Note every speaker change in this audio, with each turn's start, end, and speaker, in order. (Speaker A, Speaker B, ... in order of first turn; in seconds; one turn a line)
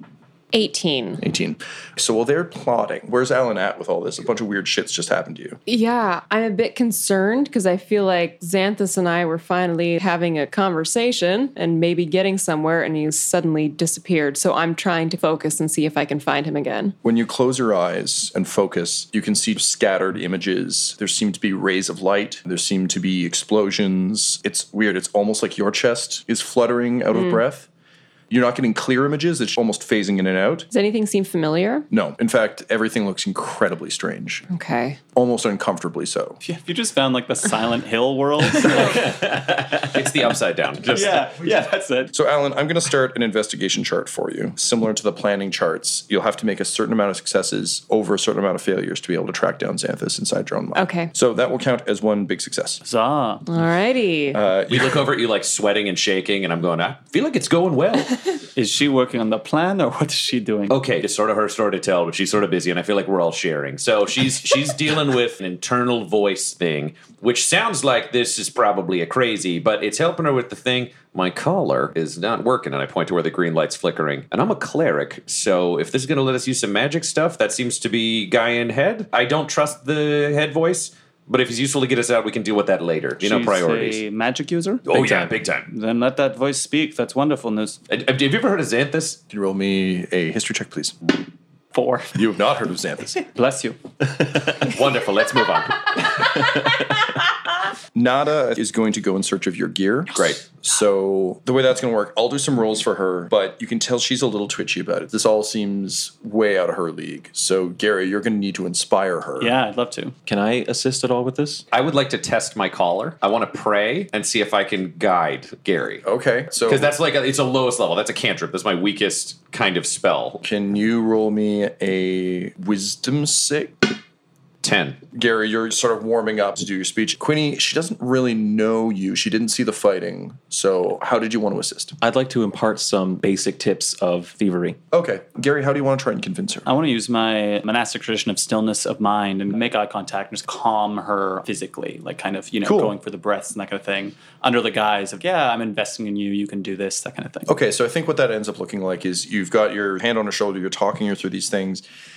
Speaker A: 0.5-1.2
Speaker B: 1.2-5.6
Speaker A: 5.7-16.9
Speaker B: 17.0-27.7
Speaker A: 27.1-27.4
Speaker B: 28.3-30.7
Speaker A: 30.7-31.9
Speaker B: 31.9-34.5
Speaker A: 34.5-35.0
Speaker B: 35.1-36.4
Speaker C: 36.4-40.0
Speaker D: 39.1-41.3
Speaker C: 40.9-42.1
Speaker B: 42.1-52.8
Speaker A: 50.8-51.1
Speaker C: 52.8-53.5
Speaker A: 53.5-54.4
Speaker B: 54.3-55.0
Speaker D: 54.7-58.2
Speaker C: 58.6-60.8
Speaker D: 60.7-84.0
Speaker C: 83.2-84.9
Speaker D: 84.9-85.7
Speaker E: 84.9-85.3
Speaker C: 85.7-87.8
Speaker D: 87.9-89.2
Speaker B: 89.3-91.0
Speaker C: 91.7-92.2
Speaker B: 92.1-93.2
Speaker C: 93.3-93.8
Speaker D: 94.5-96.2
Speaker B: 98.0-109.5
Speaker C: 109.4-110.2
Speaker E: 110.3-111.6
Speaker D: 111.7-116.0
Speaker B: 116.0-116.9
Speaker D: 116.7-120.4
Speaker B: 120.4-123.9
Speaker D: 124.6-125.0
Speaker B: 125.1-132.0
Speaker E: 132.0-134.8
Speaker B: 134.9-136.7
Speaker C: 136.7-147.5
Speaker B: 142.6-142.9
Speaker B: 147.5-151.8